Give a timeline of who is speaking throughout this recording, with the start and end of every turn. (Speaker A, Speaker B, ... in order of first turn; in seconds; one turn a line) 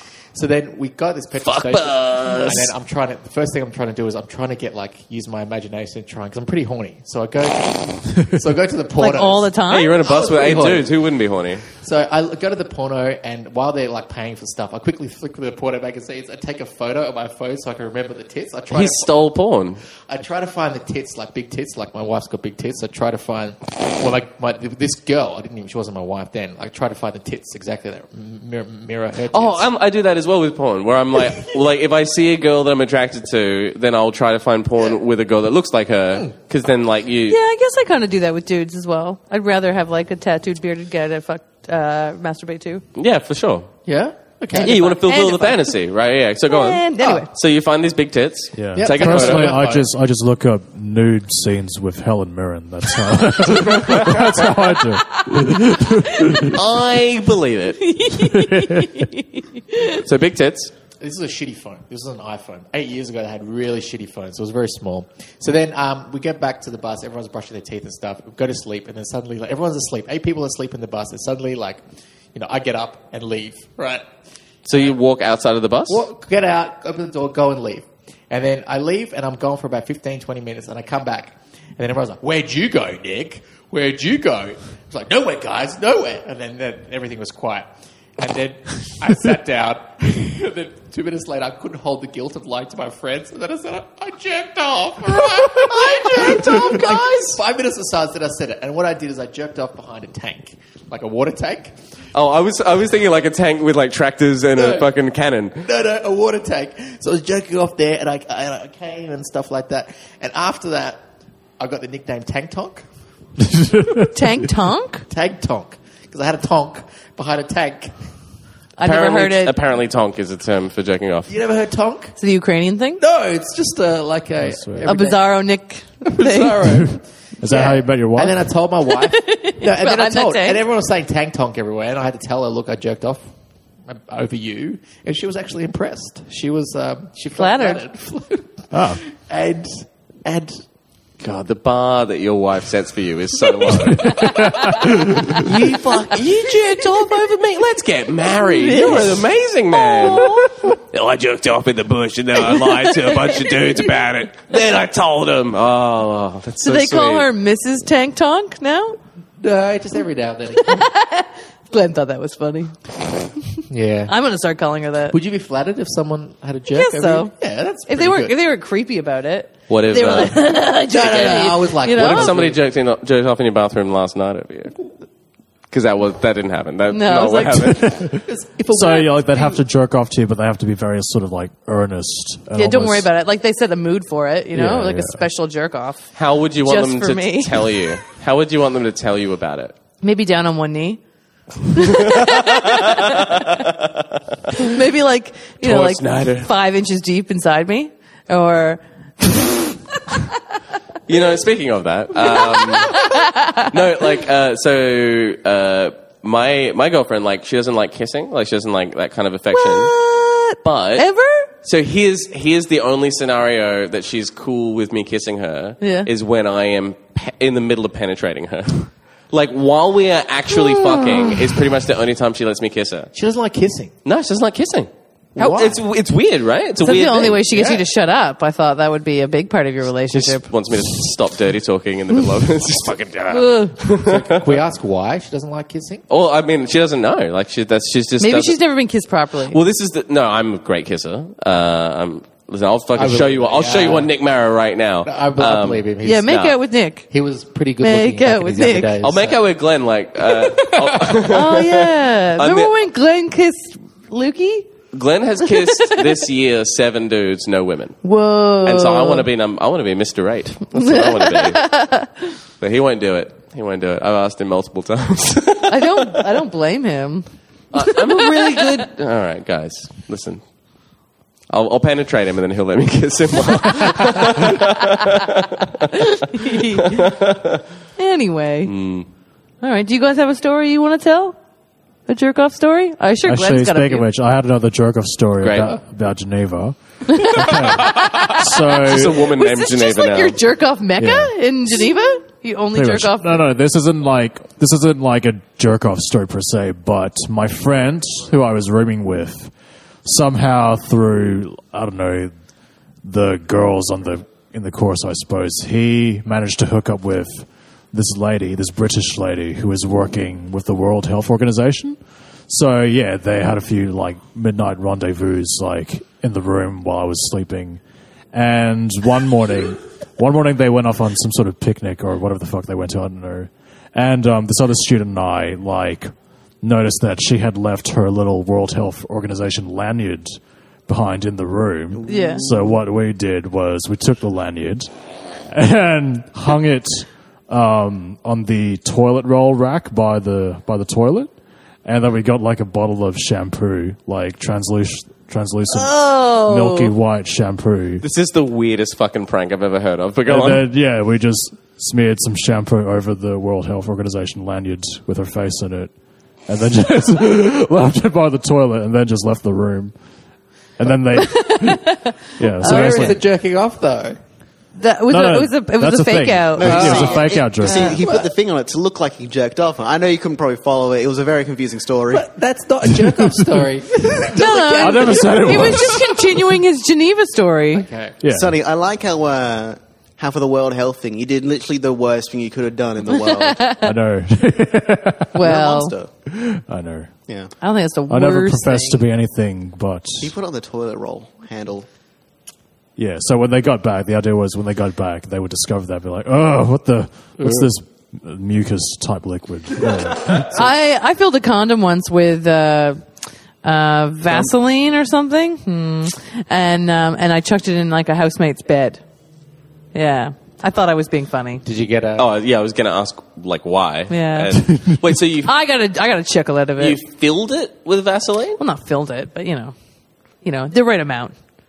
Speaker A: 0.3-10.9
Speaker B: 1.4-2.7
Speaker C: 9.0-10.0
Speaker B: 9.7-11.7
Speaker A: 11.7-19.1
Speaker B: 18.7-19.8
Speaker A: 20.1-29.7
Speaker B: 29.3-37.4
Speaker C: 37.3-42.8
Speaker B: 43.0-43.7
Speaker A: 43.9-44.9
Speaker C: 44.5-45.8
Speaker B: 44.6-49.6
Speaker C: 46.5-47.3
Speaker A: 47.0-47.2
Speaker D: 48.6-56.6
Speaker A: 48.7-49.9
Speaker C: 56.2-56.5
Speaker B: 56.5-57.8
Speaker C: 57.8-60.0
Speaker D: 58.3-59.0
Speaker B: 60.0-60.7
Speaker A: 61.0-71.8
Speaker A: 72.3-74.0
Speaker B: 74.7-76.0
Speaker A: 75.9-101.8
Speaker B: 95.4-97.4
Speaker B: 102.2-105.6
Speaker A: 104.6-104.9
Speaker A: 105.6-111.0
Speaker A: 111.6-112.8
Speaker D: 113.5-114.1
Speaker C: 114.1-115.0
Speaker A: 115.1-117.9
Speaker C: 118.8-119.6
Speaker B: 118.8-121.3
Speaker A: 121.3-122.2
Speaker C: 122.2-123.0
Speaker A: 123.0-125.3
Speaker D: 124.4-124.9
Speaker C: 124.8-126.7
Speaker A: 126.0-133.3
Speaker D: 127.4-128.4
Speaker C: 128.9-130.6
Speaker A: 133.9-140.6
Speaker C: 137.4-137.9
Speaker D: 138.7-139.0
Speaker B: 141.2-157.3
Speaker D: 143.9-145.4
Speaker C: 148.4-150.6
Speaker C: 152.4-153.6
Speaker C: 156.6-159.0
Speaker A: 159.4-160.9
Speaker C: 160.7-162.8
Speaker C: 163.6-165.2
Speaker A: 163.7-164.1
Speaker A: 165.1-168.4
Speaker C: 166.7-167.3
Speaker C: 167.9-172.4
Speaker B: 169.7-174.8
Speaker A: 170.9-172.6
Speaker B: 175.7-178.0
Speaker C: 176.9-177.8
Speaker D: 177.8-178.2
Speaker A: 178.2-179.6
Speaker D: 178.7-183.1
Speaker C: 182.6-186.1
Speaker D: 184.5-185.2
Speaker B: 186.2-189.8
Speaker C: 186.6-187.9
Speaker C: 190.0-191.0
Speaker C: 191.7-193.7
Speaker B: 191.7-194.7
Speaker C: 194.6-200.3
Speaker B: 195.6-196.5
Speaker B: 201.1-203.2
Speaker C: 202.2-203.7
Speaker B: 203.7-209.9
Speaker C: 209.5-211.5
Speaker B: 210.6-211.1
Speaker B: 211.6-223.1
Speaker C: 215.8-216.1
Speaker C: 220.5-221.5
Speaker A: 223.1-223.9
Speaker B: 224.1-227.4
Speaker A: 225.4-225.8
Speaker C: 226.8-230.4
Speaker A: 227.5-227.8
Speaker B: 230.1-234.6
Speaker C: 233.3-233.8
Speaker A: 233.9-236.0
Speaker B: 236.1-238.6
Speaker C: 238.2-239.6
Speaker B: 239.5-246.6
Speaker A: 242.9-244.1
Speaker A: 245.1-246.4
Speaker C: 246.0-247.1
Speaker A: 247.1-249.4
Speaker C: 247.8-249.0
Speaker B: 249.0-252.7
Speaker C: 251.2-254.7
Speaker B: 254.9-258.0
Speaker C: 255.4-256.1
Speaker C: 258.0-259.3
Speaker B: 258.6-261.7
Speaker C: 260.7-262.3
Speaker B: 262.6-266.2
Speaker C: 265.7-268.8
Speaker B: 267.7-270.4
Speaker B: 271.5-277.6
Speaker C: 276.2-277.1
Speaker C: 278.0-278.7
Speaker B: 278.6-279.1
Speaker C: 279.6-281.4
Speaker C: 282.1-284.1
Speaker D: 283.2-289.2
Speaker B: 285.4-285.7
Speaker C: 287.1-293.5
Speaker B: 288.8-290.4
Speaker D: 291.0-291.3
Speaker D: 292.7-302.3
Speaker D: 303.0-317.8
Speaker D: 318.3-334.9
Speaker E: 331.9-332.8
Speaker C: 332.1-332.4
Speaker D: 335.5-341.3
Speaker D: 341.9-348.0
Speaker C: 345.7-346.9
Speaker B: 348.0-350.7
Speaker D: 350.3-355.9
Speaker D: 356.5-359.9
Speaker D: 360.8-363.2
Speaker C: 361.1-363.2
Speaker A: 362.6-364.2
Speaker C: 364.8-368.0
Speaker D: 365.1-367.9
Speaker E: 366.6-372.3
Speaker A: 366.7-368.3
Speaker A: 372.1-376.3
Speaker D: 373.0-373.6
Speaker C: 374.3-377.9
Speaker D: 374.8-376.1
Speaker A: 377.7-378.2
Speaker D: 378.2-378.5
Speaker E: 378.3-383.7
Speaker C: 383.2-383.9
Speaker D: 383.8-385.4
Speaker C: 385.4-386.0
Speaker E: 385.4-386.1
Speaker D: 386.3-387.1
Speaker C: 387.6-389.0
Speaker D: 388.1-390.3
Speaker E: 390.2-391.9
Speaker D: 393.0-400.7
Speaker C: 400.5-403.1
Speaker C: 403.6-409.0
Speaker C: 409.9-411.6
Speaker A: 411.6-412.3
Speaker B: 412.2-415.5
Speaker C: 414.1-414.7
Speaker C: 415.4-417.0
Speaker B: 416.8-418.6
Speaker C: 418.6-419.8
Speaker C: 420.4-421.4